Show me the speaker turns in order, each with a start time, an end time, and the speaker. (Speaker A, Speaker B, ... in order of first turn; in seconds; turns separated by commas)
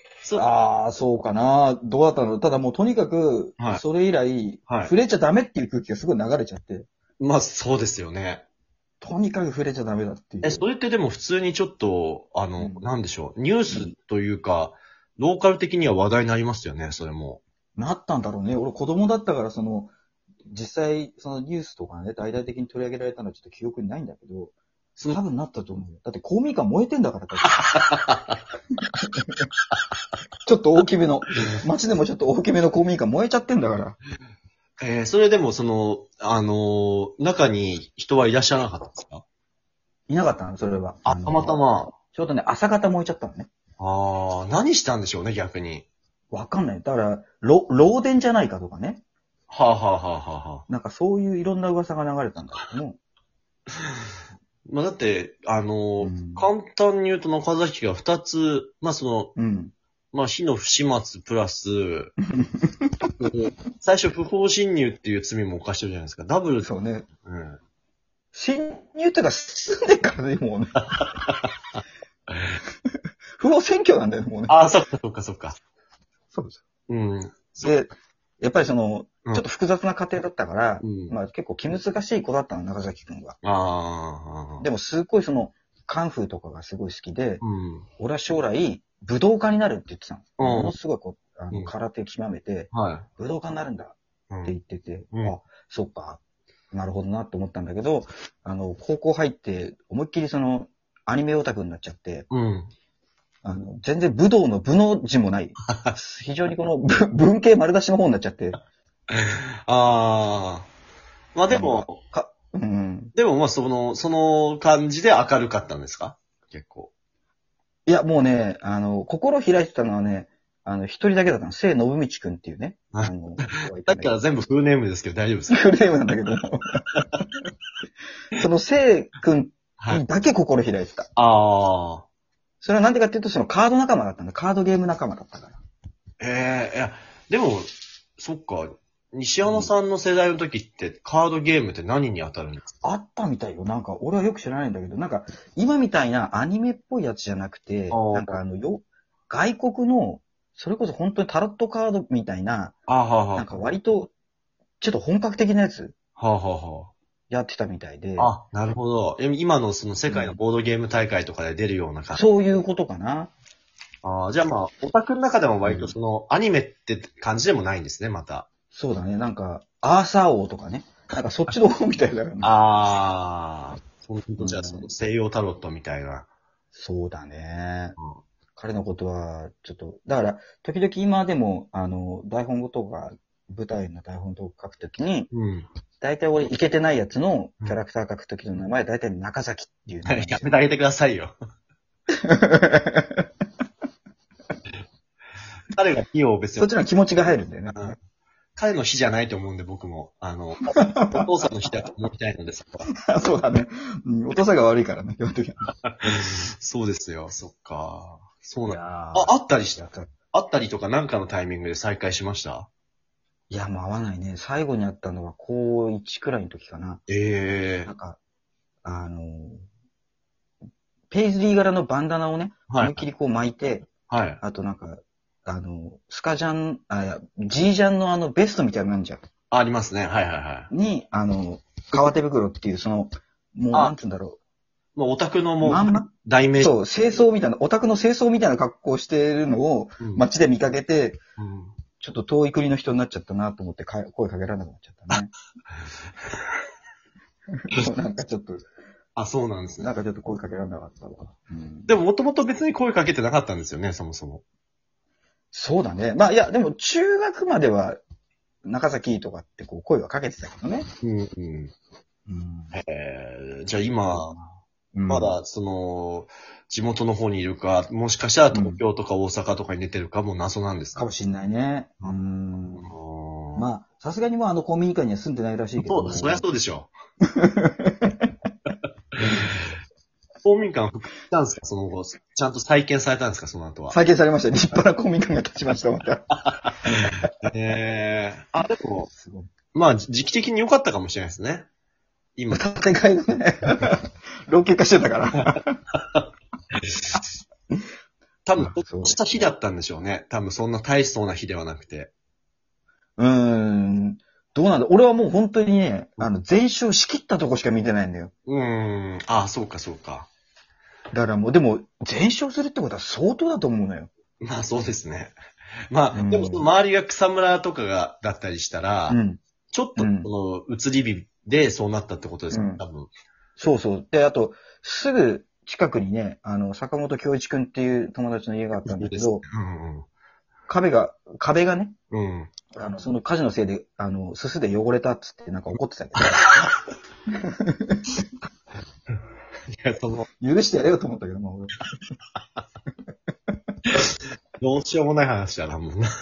Speaker A: 0.4-6.9, Speaker B: 4.7-4.9, Speaker B: 7.2-8.4, Speaker A: 9.0-10.7, Speaker B: 10.4-17.4, Speaker A: 12.6-12.9, Speaker A: 17.8-19.9, Speaker A: 20.5-24.5, Speaker A: 25.1-27.6, Speaker B: 27.4-28.4, Speaker A: 30.5-34.0, Speaker B: 34.8-39.2, Speaker A: 40.1-43.5, Speaker B: 41.0-41.9, Speaker B: 43.8-45.9, Speaker A: 46.3-49.0, Speaker B: 49.5-50.6, Speaker A: 50.7-53.0, Speaker B: 54.6-59.4, Speaker A: 56.0-56.5, Speaker A: 59.4-59.7, Speaker B: 60.1-62.1, Speaker A: 62.4-63.1, Speaker B: 63.2-66.7, Speaker A: 66.6-67.1, Speaker B: 67.2-67.6, Speaker A: 68.3-70.8, Speaker B: 70.9-71.5, Speaker A: 73.4-74.6, Speaker B: 74.5-75.6, Speaker A: 76.3-76.6, Speaker B: 76.9-77.7, Speaker A: 77.6-77.9, Speaker A: 78.4-83.4, Speaker B: 80.8-81.2, Speaker B: 83.4-84.7, Speaker A: 84.6-87.4, Speaker B: 87.4-87.9, Speaker A: 88.0-96.2, Speaker B: 90.4-90.7, Speaker B: 92.7-93.1, Speaker B: 94.3-94.5, Speaker A: 96.7-102.3, Speaker B: 102.3-102.7, Speaker A: 103.4-108.6, Speaker B: 105.7-105.9, Speaker B: 109.1-110.7, Speaker B: 111.3-112.0, Speaker A: 111.5-113.1, Speaker B: 113.1-116.9, Speaker A: 117.9-124.2, Speaker B: 122.9-125.7, Speaker A: 125.5-127.2, Speaker A: 128.4-131.1, Speaker B: 131.2-132.1, Speaker A: 132.6-135.6, Speaker B: 136.2-142.7, Speaker A: 139.4-139.7, Speaker A: 142.8-152.8, Speaker B: 147.9-148.4, Speaker B: 152.9-153.5, Speaker A: 153.3-154.1, Speaker A: 154.8-155.9, Speaker B: 156.2-156.9, Speaker A: 157.3-158.3, Speaker B: 158.2-162.2, Speaker A: 160.1-160.4, Speaker A: 162.2-163.3, Speaker B: 164.0-168.5, Speaker A: 165.6-165.9, Speaker A: 168.7-172.5, Speaker B: 172.4-176.3, Speaker A: 174.4-174.9, Speaker A: 176.7-178.0, Speaker A: 178.6-185.3, Speaker B: 185.3-185.7, Speaker A: 186.0-190.5, Speaker B: 190.1-191.3, Speaker A: 192.2-193.3, Speaker B: 195.7-198.0, Speaker A: 196.6-197.9, Speaker B: 198.6-202.9, Speaker A: 200.7-201.3, Speaker A: 203.1-205.7, Speaker B: 205.9-212.7, Speaker A: 208.7-210.1, Speaker A: 213.5-217.0, Speaker B: 217.1-217.9, Speaker A: 217.8-218.2, Speaker A: 218.8-219.6, Speaker A: 221.1-223.9, Speaker B: 222.7-223.0, Speaker B: 224.1-224.4, Speaker A: 224.4-229.2, Speaker B: 229.5-230.7, Speaker A: 230.7-234.4, Speaker B: 235.0-236.7, Speaker A: 235.6-236.1, Speaker A: 236.6-241.2, Speaker B: 241.4-241.7, Speaker A: 242.0-245.3, Speaker A: 247.7-248.6, Speaker B: 249.2-249.9, Speaker A: 249.8-251.9, Speaker B: 251.9-254.4, Speaker A: 255.5-258.0, Speaker A: 258.6-260.9, Speaker B: 261.0-261.7, Speaker A: 262.3-262.7, Speaker B: 262.7-264.3, Speaker A: 264.1-265.4, Speaker B: 265.1-271.0, Speaker A: 268.5-268.8, Speaker A: 271.0-272.9, Speaker B: 272.8-273.6, Speaker A: 273.6-276.5, Speaker B: 275.8-276.9, Speaker A: 277.4-278.3, Speaker B: 279.2-279.6, Speaker B: 280.4-284.0, Speaker A: 283.9-286.3, Speaker B: 286.4-289.1, Speaker A: 286.9-287.3, Speaker A: 289.1-289.5, Speaker B: 289.7-291.7, Speaker B: 292.4-292.6, Speaker A: 292.5-295.8, Speaker B: 298.4-302.1, Speaker A: 298.6-299.2, Speaker A: 303.2-308.3, Speaker B: 308.5-310.3, Speaker A: 311.1-314.1, Speaker B: 314.4-315.3, Speaker B: 315.9-319.2, Speaker A: 316.1-316.7, Speaker A: 319.1-319.4, Speaker B: 319.7-323.1, Speaker A: 320.0-320.3, Speaker A: 322.5-322.8, Speaker A: 323.6-329.4, Speaker B: 328.9-330.1, Speaker A: 330.7-331.9, Speaker B: 332.1-332.5, Speaker A: 332.7-336.7, Speaker A: 337.5-338.1, Speaker B: 339.7-340.3, Speaker A: 340.4-341.8, Speaker B: 343.9-346.1